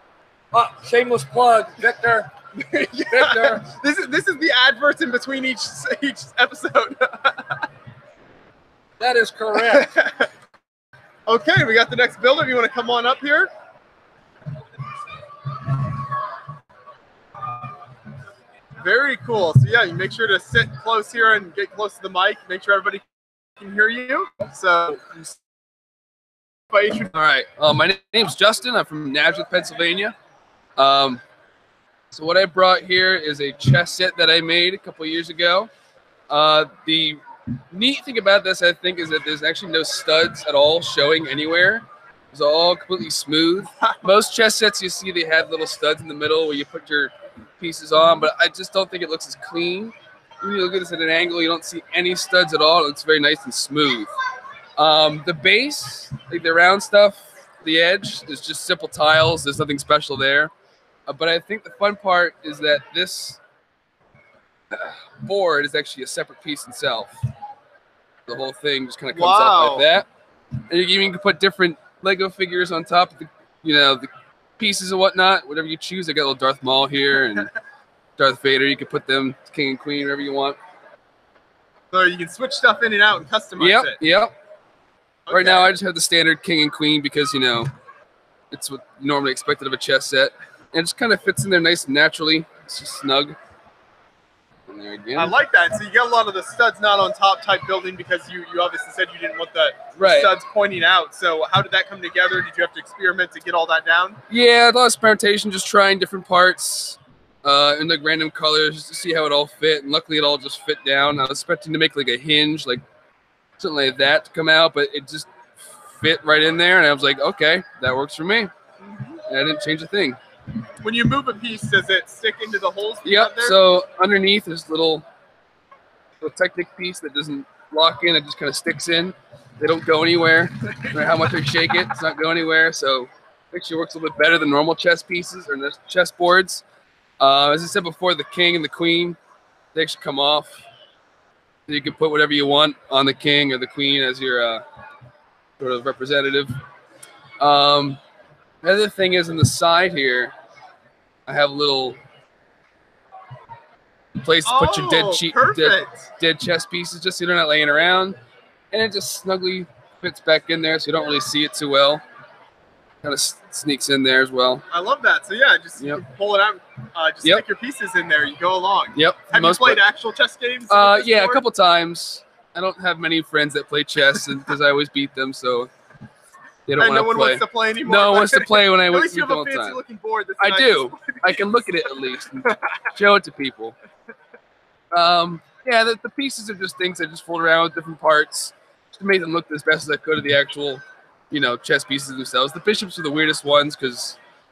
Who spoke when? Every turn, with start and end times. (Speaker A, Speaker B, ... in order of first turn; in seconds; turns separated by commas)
Speaker A: 0.5-2.3, Speaker B: 2.6-7.6, Speaker A: 3.1-3.6, Speaker A: 9.0-9.9, Speaker B: 9.6-10.3, Speaker B: 11.3-13.5, Speaker B: 18.8-23.0, Speaker B: 23.6-25.3, Speaker B: 26.7-27.1, Speaker C: 27.1-30.1, Speaker C: 30.8-31.2, Speaker C: 32.1-35.7, Speaker C: 36.3-54.1, Speaker C: 54.8-60.5, Speaker C: 61.1-63.4, Speaker C: 64.7-67.2, Speaker C: 68.3-70.1, Speaker B: 69.1-69.8, Speaker C: 70.7-77.5, Speaker C: 78.2-80.6, Speaker B: 81.9-84.0, Speaker C: 83.6-84.3, Speaker B: 85.3-85.7, Speaker C: 85.3-87.7, Speaker C: 88.5-93.4, Speaker C: 94.7-95.3, Speaker B: 95.2-104.2, Speaker C: 100.0-100.3, Speaker C: 104.3-112.8, Speaker C: 113.6-118.5, Speaker B: 118.8-119.2, Speaker C: 119.3-120.2, Speaker B: 120.8-123.5, Speaker C: 123.0-125.0, Speaker C: 126.2-136.6, Speaker B: 130.9-131.3, Speaker C: 137.2-139.2, Speaker C: 139.7-140.6, Speaker C: 141.7-144.6, Speaker C: 145.6-146.5, Speaker C: 147.4-148.0, Speaker C: 148.6-150.3, Speaker C: 151.3-152.0, Speaker C: 154.2-158.2, Speaker B: 154.4-156.1, Speaker C: 158.7-162.0, Speaker C: 163.0-164.6, Speaker B: 164.7-171.4, Speaker C: 168.9-169.8, Speaker C: 170.7-175.7, Speaker C: 176.7-179.8, Speaker B: 176.8-181.5, Speaker C: 180.4-183.8, Speaker C: 184.9-194.2